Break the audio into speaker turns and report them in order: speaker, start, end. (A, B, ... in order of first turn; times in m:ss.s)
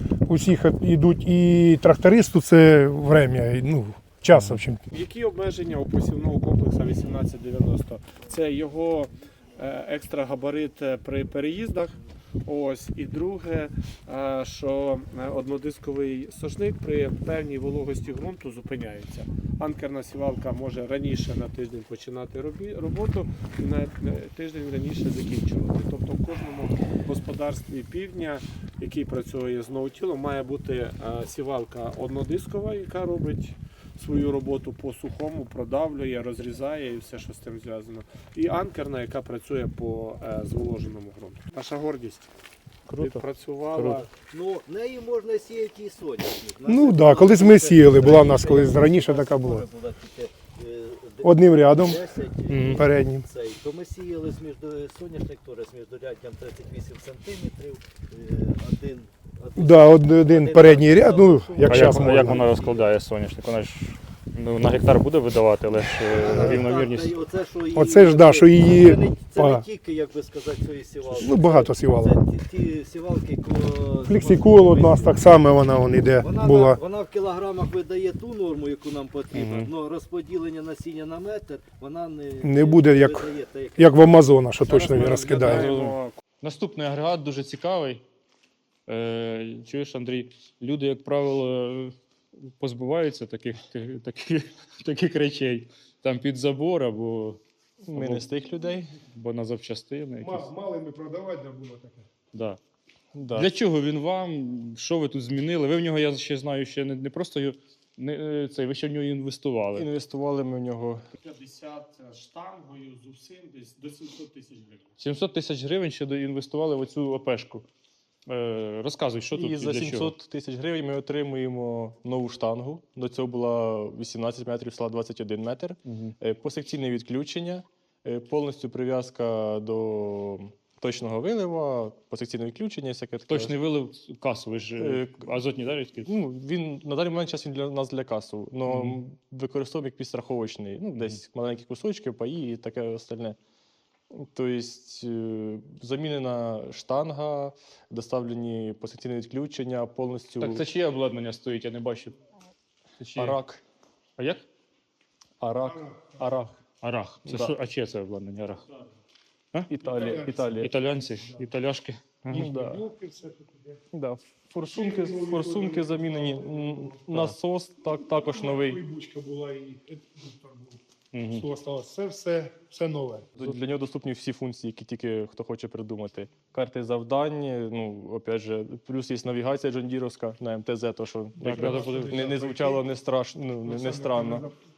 0:00.3-0:04.8 A
0:04.3-0:04.6 B
0:04.9-0:42.3 C
0:42.9-0:43.2 B
0:43.0-0:44.1 C
0:43.7-0:44.0 B
0:44.1-1:02.8 D
0:46.6-0:49.7 A
0:51.2-0:53.3 A
0:52.5-0:52.9 B
0:59.6-1:02.5 A
1:01.7-1:07.2 B
1:06.1-1:15.2 D
1:06.2-1:06.6 A
1:07.7-1:09.7 A
1:11.1-1:12.2 A
1:14.1-1:16.8 A
1:16.2-1:24.0 D
1:19.3-1:19.7 B
1:22.4-1:25.7 A
1:24.6-1:26.2 C
1:25.0-1:28.0 B
1:28.9-1:37.4 B
1:37.8-1:38.9 E
1:37.9-1:38.3 B
1:39.1-1:40.5 B
1:40.2-1:42.0 A
1:42.3-1:42.6 B
1:43.2-1:43.5 E
1:43.3-1:49.9 B
1:49.7-1:51.0 E
1:51.2-1:55.0 C
1:55.0-1:57.7 B
1:58.3-2:00.2 B
1:59.3-2:13.6 E
2:05.9-2:06.2 B
2:13.3-2:16.1 B
2:14.8-2:15.2 E
2:16.0-2:23.4 E
2:18.7-2:19.0 B
2:24.1-2:30.6 E
2:30.4-2:32.2 B
2:33.0-2:33.4 B
2:33.2-2:33.6 E
2:34.2-2:34.4 B
2:35.4-2:36.6 E
2:35.7-2:36.3 A
2:36.8-2:38.6 B
2:37.3-2:37.6 E
2:39.7-2:40.7 E
2:39.8-2:40.6 A
2:40.6-2:42.5 B
2:41.2-2:41.5 A
2:42.3-2:42.8 E
2:42.3-2:43.8 A
2:43.9-2:48.8 E
2:44.7-2:47.0 A
2:48.0-2:50.8 A
2:51.1-2:51.5 B
2:51.3-2:53.3 A
2:53.4-3:04.5 E
3:01.4-3:02.3 B
3:01.5-3:02.8 A
3:03.6-3:04.5 A